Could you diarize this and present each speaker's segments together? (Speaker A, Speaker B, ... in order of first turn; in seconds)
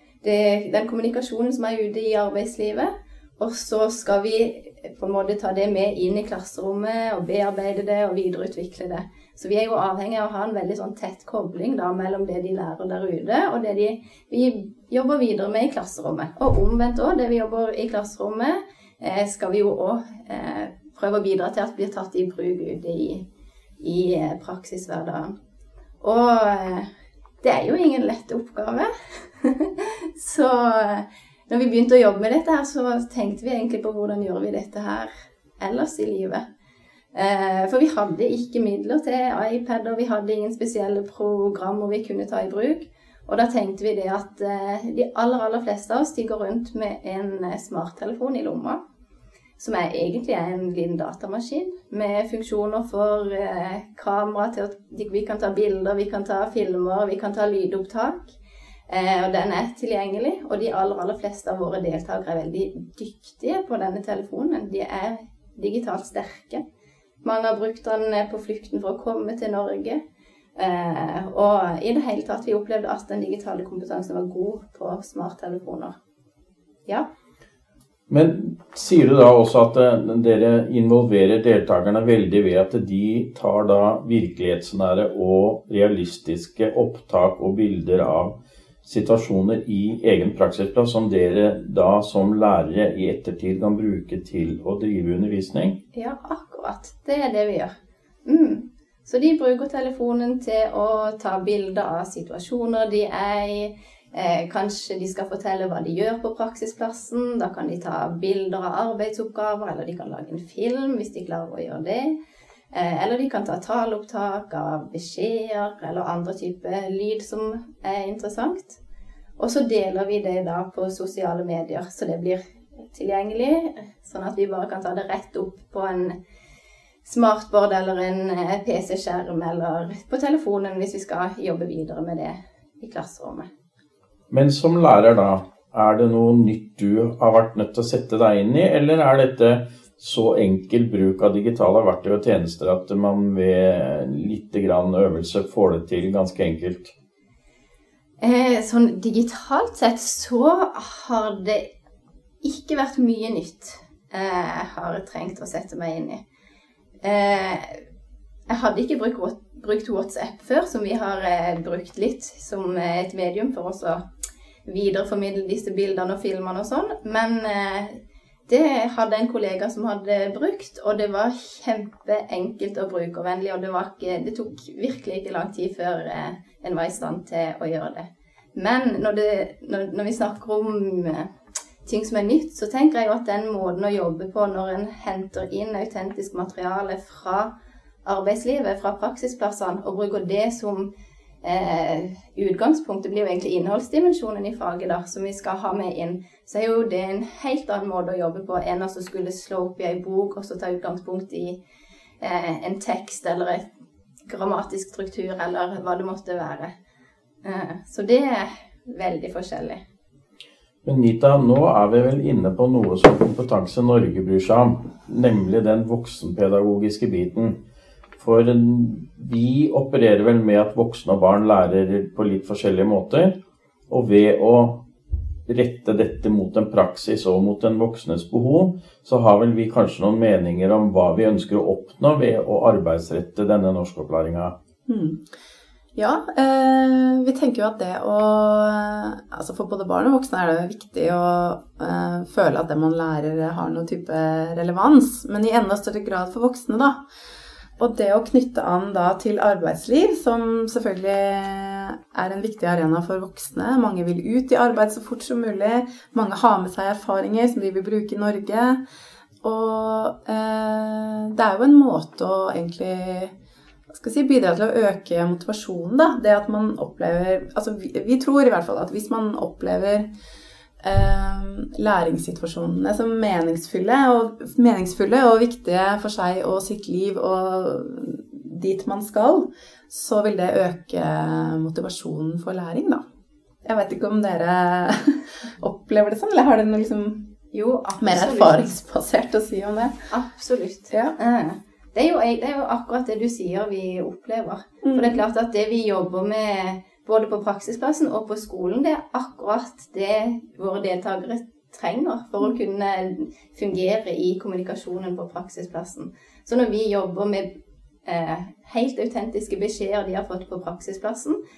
Speaker A: 0.2-23.3, 23.8-25.4, 26.0-26.9, 27.4-36.5, 37.1-48.8, 49.6-58.3, 58.9-66.6, 67.2-70.0, 70.6-76.0, 95.9-97.7, 98.2-112.2, 112.7-118.8, 119.4-126.2, 127.0-133.5, 148.2-151.7, 152.4-156.2, 157.0-157.8, 158.5-164.0, 164.7-181.3, 181.8-187.5, 188.1-190.9, 191.4-201.6, 202.2-203.7, 204.3-206.7, 207.4-209.8, 287.5-288.8, 290.1-307.5, 308.1-311.4
Speaker B: 78.1-95.8, 134.3-146.9, 210.8-217.6, 218.2-223.3, 223.9-224.8, 225.5-234.6
Speaker C: 234.9-235.2, 235.9-247.0, 247.8-258.8, 259.4-263.3, 263.9-270.1, 270.8-283.0, 283.6-287.3, 288.0-290.0, 294.8-295.2